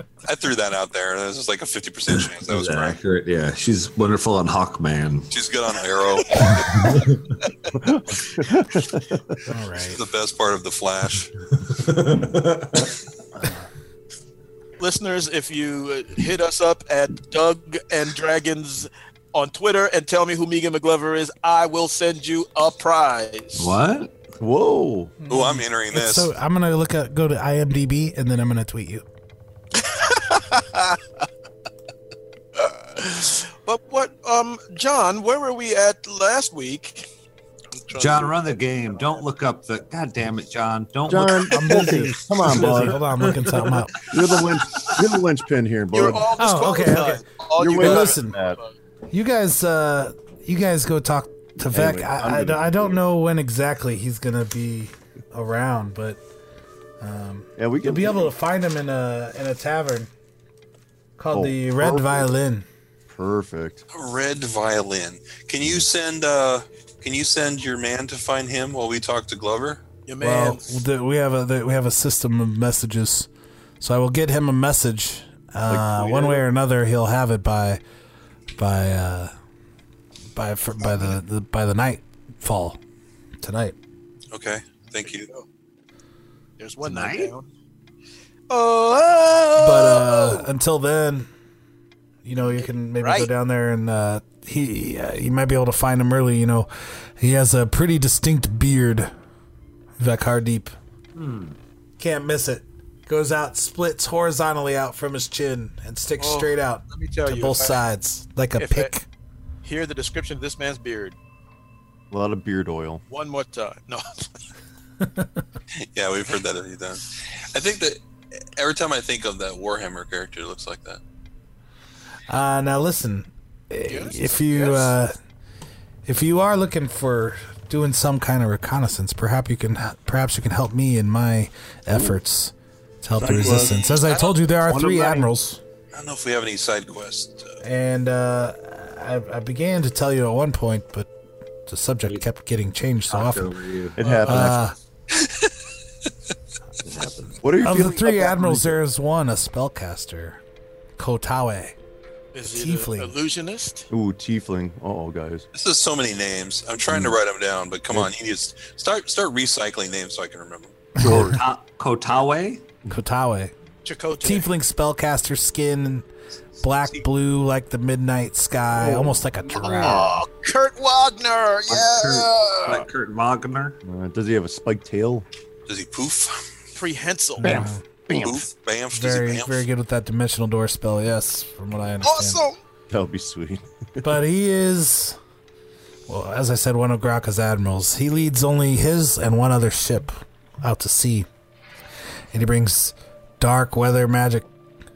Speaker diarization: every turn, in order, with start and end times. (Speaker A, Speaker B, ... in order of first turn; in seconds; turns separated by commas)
Speaker A: 0.2-3.0, Speaker B: 2.1-5.3, Speaker A: 5.3-6.5, Speaker C: 6.3-6.6, Speaker B: 6.4-7.4, Speaker D: 7.8-9.2, Speaker E: 9.4-10.0, Speaker A: 9.9-11.3, Speaker B: 11.5-13.0, Speaker E: 13.4-13.7, Speaker C: 14.8-23.8, Speaker B: 23.6-24.1, Speaker D: 24.4-25.1, Speaker E: 25.2-29.1, Speaker A: 25.3-26.3, Speaker C: 29.8-31.0, Speaker C: 32.6-37.1, Speaker C: 37.7-38.4, Speaker B: 38.0-45.0, Speaker D: 41.1-43.0, Speaker E: 41.5-43.9, Speaker D: 44.1-46.3, Speaker C: 45.9-48.7, Speaker E: 46.4-47.2, Speaker D: 47.6-48.6, Speaker E: 47.8-48.4, Speaker E: 49.1-56.2, Speaker D: 51.7-53.0, Speaker E: 57.0-60.1, Speaker D: 57.6-58.3, Speaker E: 61.2-62.6, Speaker D: 61.3-62.3, Speaker D: 63.1-63.8, Speaker A: 63.9-69.8, Speaker C: 70.1-70.7, Speaker E: 70.2-73.3, Speaker E: 73.8-77.8, Speaker D: 75.7-76.4, Speaker E: 78.5-79.3, Speaker E: 80.3-82.8, Speaker E: 83.4-83.8, Speaker A: 84.3-85.3, Speaker C: 85.0-85.4, Speaker C: 86.6-87.5, Speaker B: 86.8-87.3, Speaker C: 88.5-90.5, Speaker E: 89.6-91.3, Speaker E: 92.2-99.1, Speaker C: 92.6-93.3, Speaker E: 100.0-100.7, Speaker B: 101.1-101.6, Speaker E: 102.0-109.0, Speaker C: 106.2-107.8, Speaker C: 108.6-108.9, Speaker C: 109.6-111.2, Speaker D: 112.1-113.0, Speaker C: 113.1-114.3, Speaker E: 115.0-115.3, Speaker A: 115.9-118.0, Speaker A: 118.6-121.0, Speaker E: 122.3-125.1, Speaker C: 123.9-124.9, Speaker E: 126.1-135.6, Speaker D: 131.9-132.2, Speaker D: 133.2-133.8, Speaker A: 133.4-134.4, Speaker D: 134.6-135.3, Speaker A: 135.9-137.6, Speaker E: 137.6-141.1, Speaker E: 141.7-143.6, Speaker B: 143.1-144.6, Speaker D: 144.0-144.7, Speaker E: 144.3-144.8, Speaker A: 145.1-145.5, Speaker B: 146.8-147.4, Speaker D: 147.4-148.8, Speaker E: 147.6-150.4, Speaker E: 151.0-151.8, Speaker C: 152.3-153.9, Speaker E: 152.5-153.1, Speaker D: 153.9-155.4, Speaker A: 155.5-160.8, Speaker D: 156.9-157.1, Speaker E: 161.0-161.3, Speaker D: 161.0-161.4, Speaker B: 161.0-162.6, Speaker E: 162.9-163.5, Speaker C: 163.8-164.5, Speaker E: 164.2-166.1, Speaker E: 166.6-170.2, Speaker D: 168.7-170.1, Speaker C: 169.8-172.9, Speaker B: 171.7-173.8, Speaker D: 173.8-175.3, Speaker A: 175.7-176.4, Speaker C: 176.8-177.6, Speaker D: 177.4-178.4, Speaker E: 177.4-177.8, Speaker A: 178.2-179.6, Speaker E: 178.9-182.4, Speaker C: 182.0-182.6, Speaker D: 182.9-184.1, Speaker E: 184.0-185.2, Speaker E: 186.1-191.3, Speaker E: 192.3-194.5